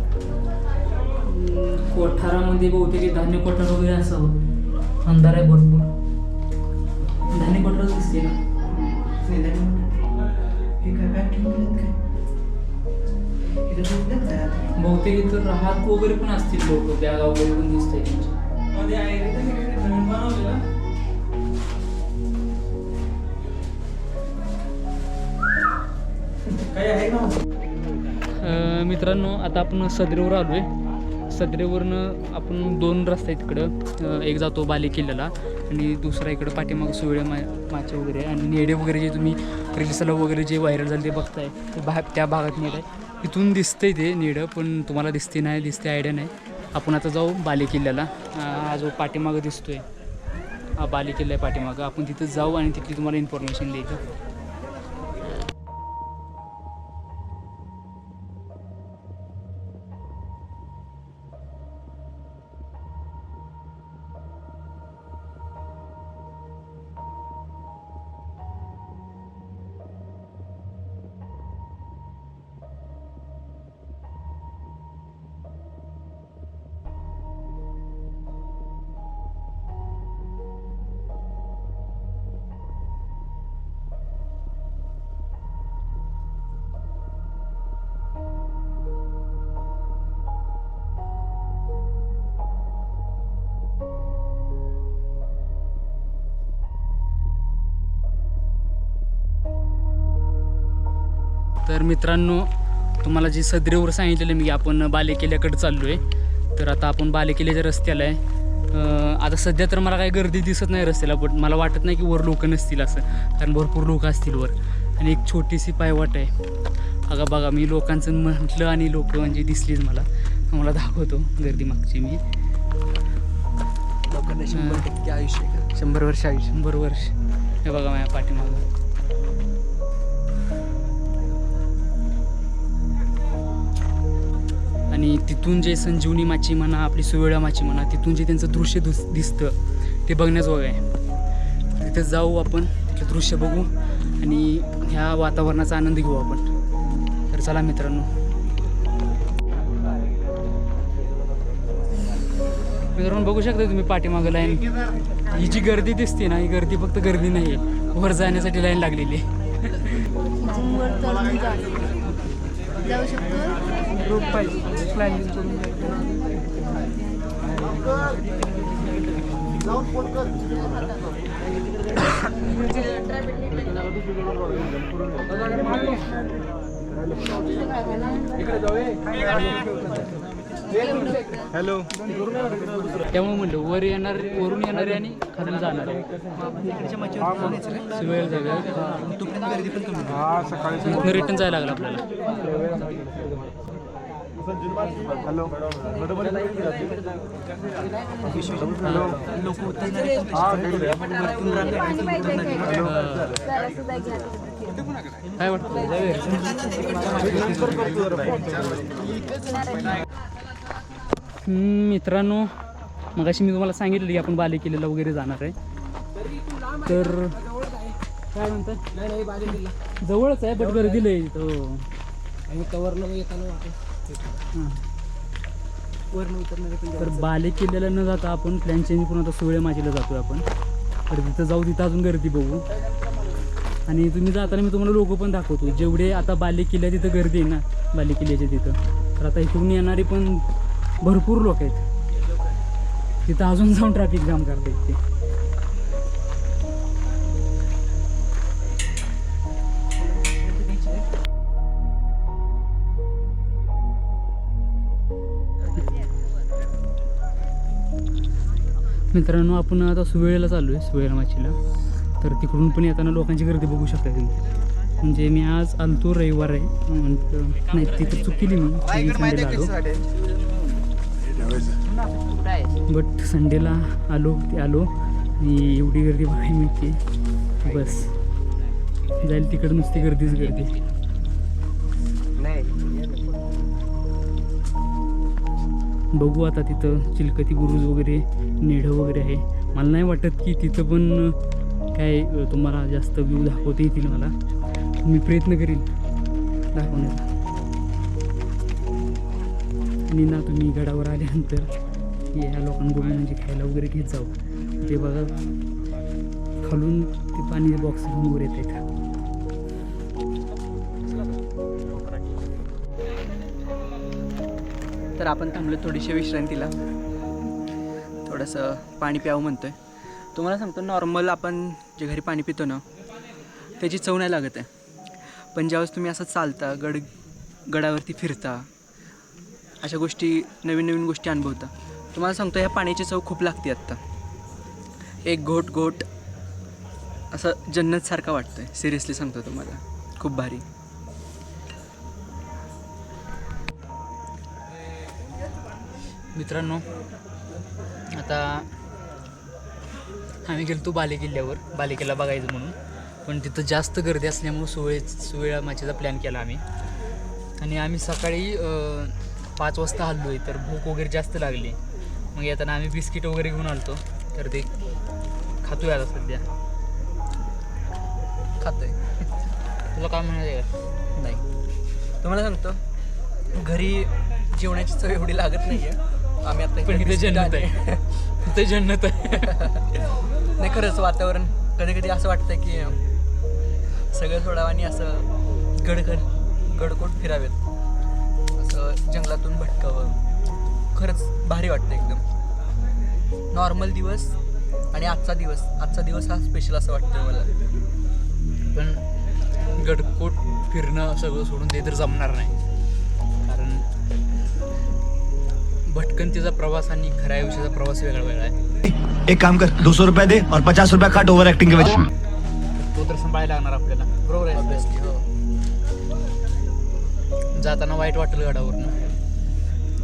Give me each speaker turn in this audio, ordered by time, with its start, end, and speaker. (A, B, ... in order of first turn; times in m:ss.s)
0:01.3-0:04.4 A
0:05.0-0:05.9 A
0:07.3-0:08.4 A
0:08.7-0:10.0 B
0:10.8-0:12.0 B
0:13.7-0:14.7 B
0:14.8-0:18.4 A
0:19.5-0:20.4 B
0:28.4-0:30.7 A
0:31.3-0:49.8 A
0:50.8-0:54.0 A
1:41.6-1:42.5 A
1:43.0-1:46.0 A
1:46.6-1:48.2 A
1:48.7-1:56.3 A
1:57.1-2:02.2 A
2:04.1-2:06.5 B
2:04.5-2:04.8 A
2:06.5-2:07.1 A
2:07.6-2:08.6 A
2:14.9-2:19.6 A
2:20.1-2:20.8 A
2:21.8-2:26.5 A
2:27.3-2:28.1 A
2:32.9-2:34.7 A
2:35.3-2:39.9 A
2:40.5-2:41.8 C
2:42.8-2:43.6 C
2:44.2-2:45.8 A
3:03.1-3:06.0 A
3:06.4-3:07.9 B
3:07.9-3:08.8 A
3:08.8-3:10.9 B
3:10.8-3:12.0 A
3:16.5-3:16.9 B
3:18.3-3:20.8 A
3:21.2-3:22.8 B
3:22.5-3:23.4 A
3:25.4-3:28.2 A
3:31.4-3:32.5 A
3:33.2-3:35.6 A
3:36.8-3:37.4 A
3:38.3-3:38.8 A
3:39.2-3:39.6 B
3:40.0-3:41.9 A
3:42.5-3:43.7 B
3:44.5-3:44.8 A
3:46.1-3:47.3 B
3:47.0-3:50.4 A
3:51.1-3:52.6 A
3:53.9-4:00.4 A
4:01.0-4:01.8 A
4:03.2-4:05.0 A
4:10.3-4:11.0 B
4:19.1-4:21.6 A
4:22.2-4:24.3 A
4:25.0-4:29.7 A
4:32.2-4:32.7 B
4:32.9-4:37.0 A
4:37.6-4:38.1 A
4:39.2-4:40.8 A
4:46.1-4:51.4 A
4:51.9-4:54.3 A
4:55.0-4:55.9 A
4:56.7-4:57.3 A
5:00.1-5:01.7 A
5:02.3-5:05.4 A
5:06.6-5:08.8 A
5:15.2-5:16.7 B
5:18.2-5:19.8 B
5:20.4-5:22.8 B
5:23.8-5:24.7 B
5:25.6-5:27.1 B
5:27.7-5:28.7 B
5:29.8-5:34.0 B
5:35.3-5:36.1 B
5:37.3-5:40.6 B
5:46.3-5:46.8 A
5:48.2-5:48.7 A
5:50.4-5:56.6 A
5:57.6-6:01.8 A
6:02.3-6:04.7 A
6:05.6-6:06.4 A
6:08.6-6:09.0 B
6:09.9-6:10.7 A
6:11.2-6:11.4 B
6:12.2-6:12.8 B
6:13.5-6:18.1 B
6:16.8-6:17.7 A
6:18.4-6:19.7 A
6:19.4-6:19.8 B
6:20.6-6:23.0 B
6:24.1-6:25.3 B
6:25.8-6:27.6 B
6:28.6-6:30.2 B
6:30.9-6:32.2 B
6:33.5-6:34.4 B
6:34.9-6:37.5 B
6:38.7-6:39.0 A
6:39.8-6:42.5 A
6:43.4-6:43.8 A
6:45.9-6:48.6 A
6:48.8-6:52.0 D
6:52.8-6:54.9 A
6:54.3-6:55.2 B
6:57.6-6:58.9 A